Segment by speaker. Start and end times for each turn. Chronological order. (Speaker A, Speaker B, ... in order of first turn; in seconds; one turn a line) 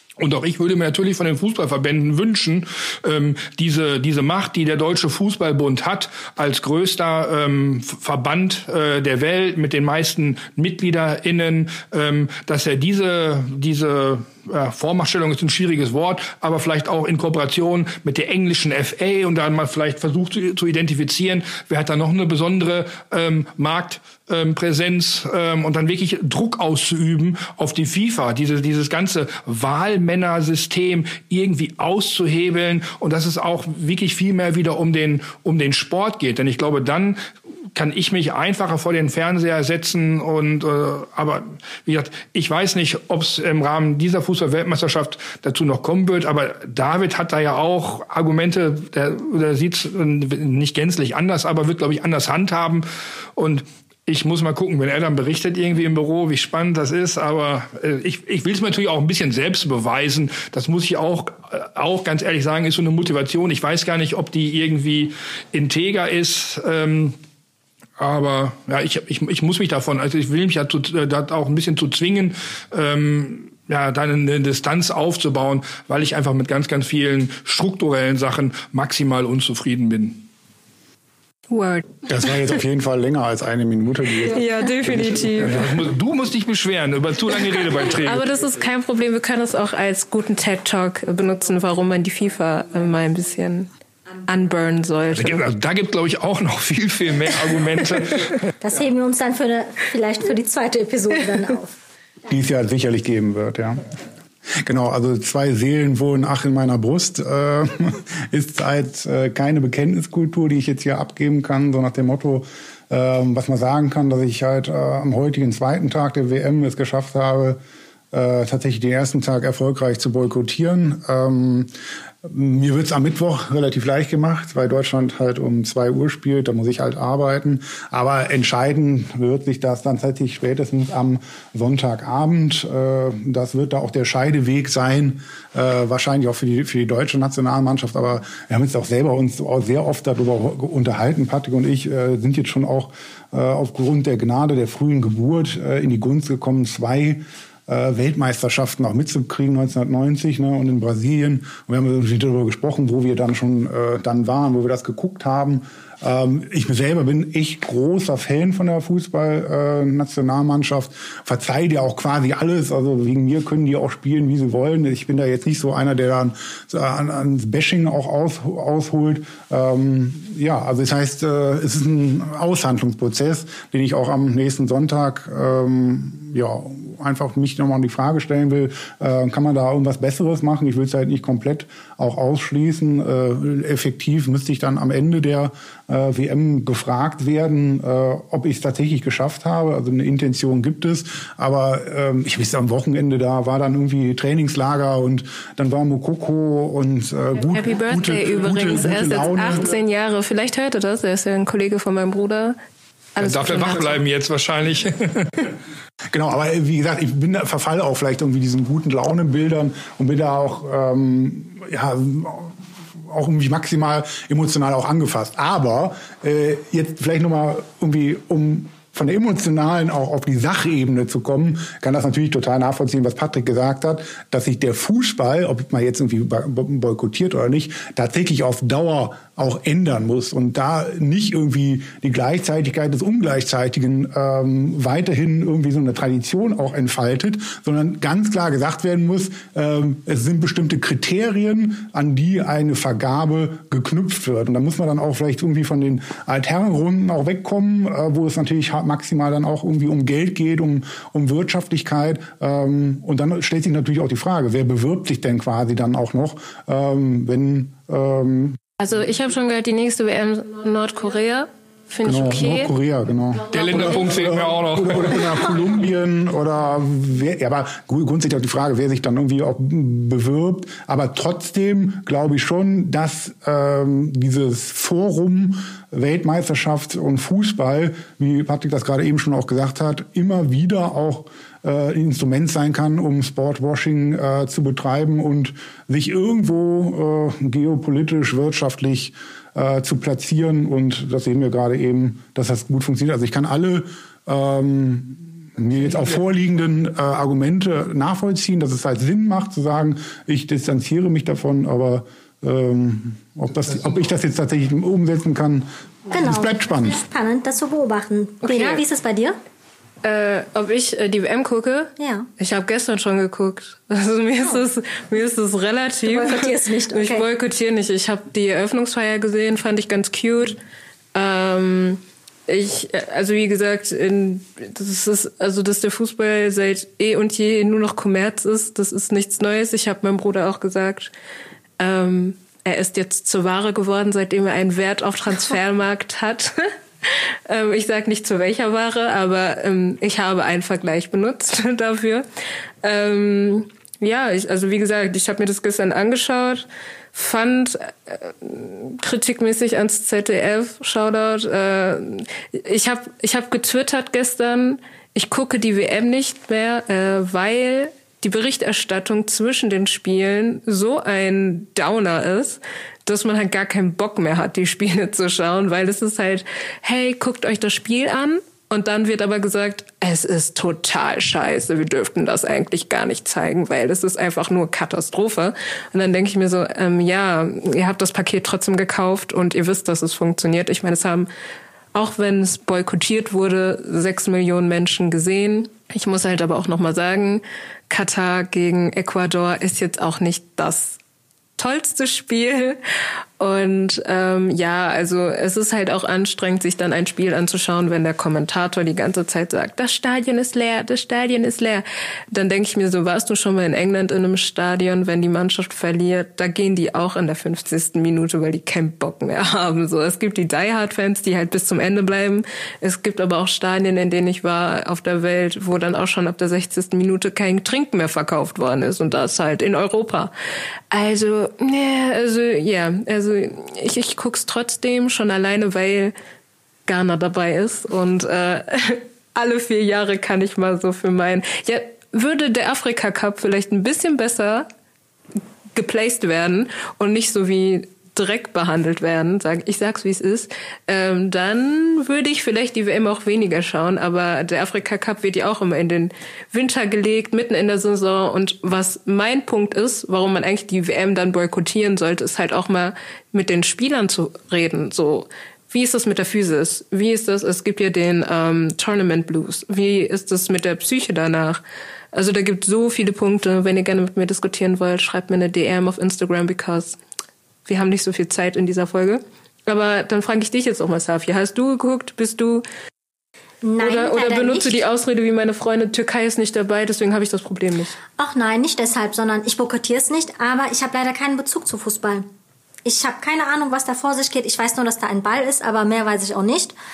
Speaker A: 0.2-37.2
Speaker A: 37.8-52.9
Speaker A: 53.4-67.2
Speaker A: 68.0-80.3
Speaker B: 81.5-82.1
Speaker C: 82.1-85.4
Speaker B: 84.3-85.6
Speaker A: 85.4-88.3
Speaker B: 87.9-93.7
Speaker B: 94.3-95.4
Speaker A: 95.2-98.5
Speaker D: 98.6-101.8
Speaker C: 102.3-103.8
Speaker C: 104.6-117.6
Speaker C: 118.1-121.7
Speaker C: 122.2-199.7
Speaker B: 197.5-202.6
Speaker B: 203.2-204.0
Speaker A: 203.2-205.5
Speaker C: 206.1-212.6
Speaker C: 213.1-258.6
Speaker B: 258.8-262.7
Speaker C: 262.0-307.0
Speaker A: 263.5-265.7
Speaker D: 306.1-309.4
Speaker B: 308.4-308.9
Speaker B: 310.0-320.6
Speaker D: 312.0-312.3
Speaker D: 316.1-317.3
Speaker B: 321.1-331.1
Speaker B: 331.8-342.2
Speaker B: 342.8-381.3
Speaker B: 381.9-391.0
Speaker B: 391.6-392.8
Speaker B: 393.4-420.3
Speaker B: 420.9-426.1
Speaker B: 426.9-434.7
Speaker B: 435.8-461.6
Speaker B: 462.1-467.0
Speaker B: 467.6-472.6
Speaker D: 473.6-474.8
Speaker B: 473.8-478.0
Speaker D: 478.2-482.3
Speaker D: 482.9-486.7